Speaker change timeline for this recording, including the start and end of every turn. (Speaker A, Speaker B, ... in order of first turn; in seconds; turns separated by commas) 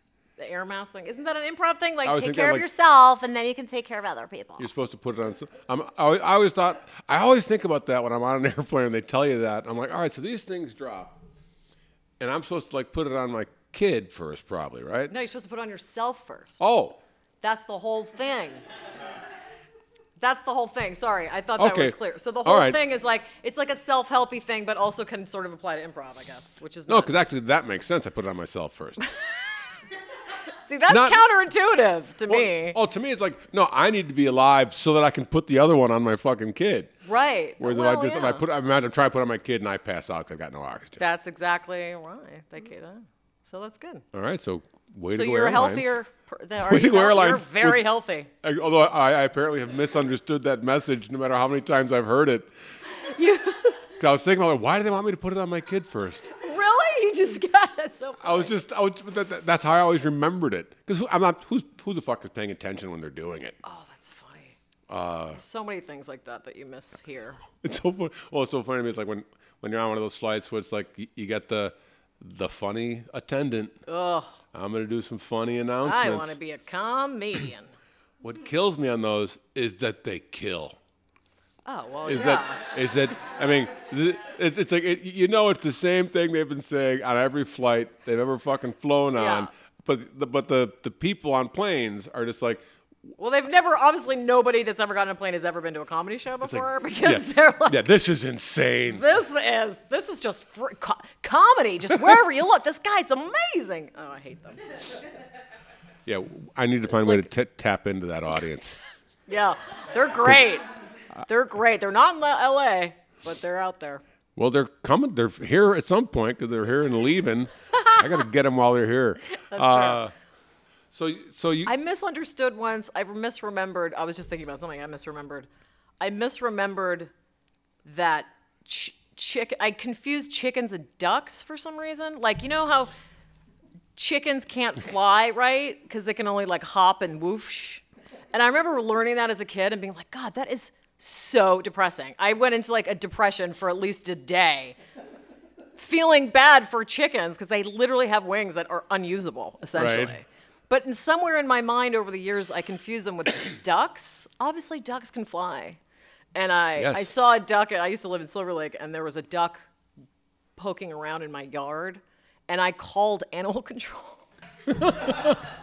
Speaker A: 0.4-4.7, Speaker B: 2.0-2.7, Speaker B: 4.6-11.2, Speaker B: 12.2-15.1, Speaker A: 15.1-16.6, Speaker B: 16.6-17.0, Speaker A: 17.4-18.6, Speaker A: 20.2-27.1, Speaker B: 21.6-22.8, Speaker B: 26.9-29.1, Speaker A: 29.0-29.3, Speaker A: 30.5-32.8, Speaker B: 30.9-31.2, Speaker B: 32.3-36.9, Speaker A: 37.0-38.4, Speaker B: 37.6-41.0, Speaker A: 41.0-44.0, Speaker B: 44.1-46.0, Speaker A: 45.1-48.3, Speaker B: 46.6-47.8, Speaker B: 48.4-52.5, Speaker A: 52.9-53.8, Speaker B: 54.0-56.3, Speaker A: 56.4-58.5, Speaker B: 58.2-63.6, Speaker A: 63.6-64.5, Speaker B: 64.9-65.4, Speaker A: 65.3-67.4, Speaker B: 67.6-73.8, Speaker A: 73.8-74.4, Speaker B: 74.5-76.3, Speaker A: 75.8-77.7, Speaker B: 78.2-80.8, Speaker A: 81.6-82.6, Speaker B: 82.0-92.6, Speaker A: 89.1-89.5, Speaker A: 93.2-97.8, Speaker B: 96.4-99.1, Speaker A: 98.9-104.7, Speaker B: 106.1-108.8, Speaker A: 106.9-107.3, Speaker A: 109.3-110.7, Speaker A: 111.2-114.0, Speaker B: 114.3-120.1, Speaker A: 117.7-118.2, Speaker A: 119.3-120.0, Speaker B: 120.9-121.7, Speaker A: 121.6-125.5, Speaker A: 126.0-127.1, Speaker A: 127.8-132.9, Speaker A: 133.9-144.8, Speaker A: 145.8-155.8, Speaker B: 149.8-150.2, Speaker A: 156.3-159.7, Speaker B: 156.8-157.1, Speaker A: 160.6-164.3, Speaker B: 164.7-165.4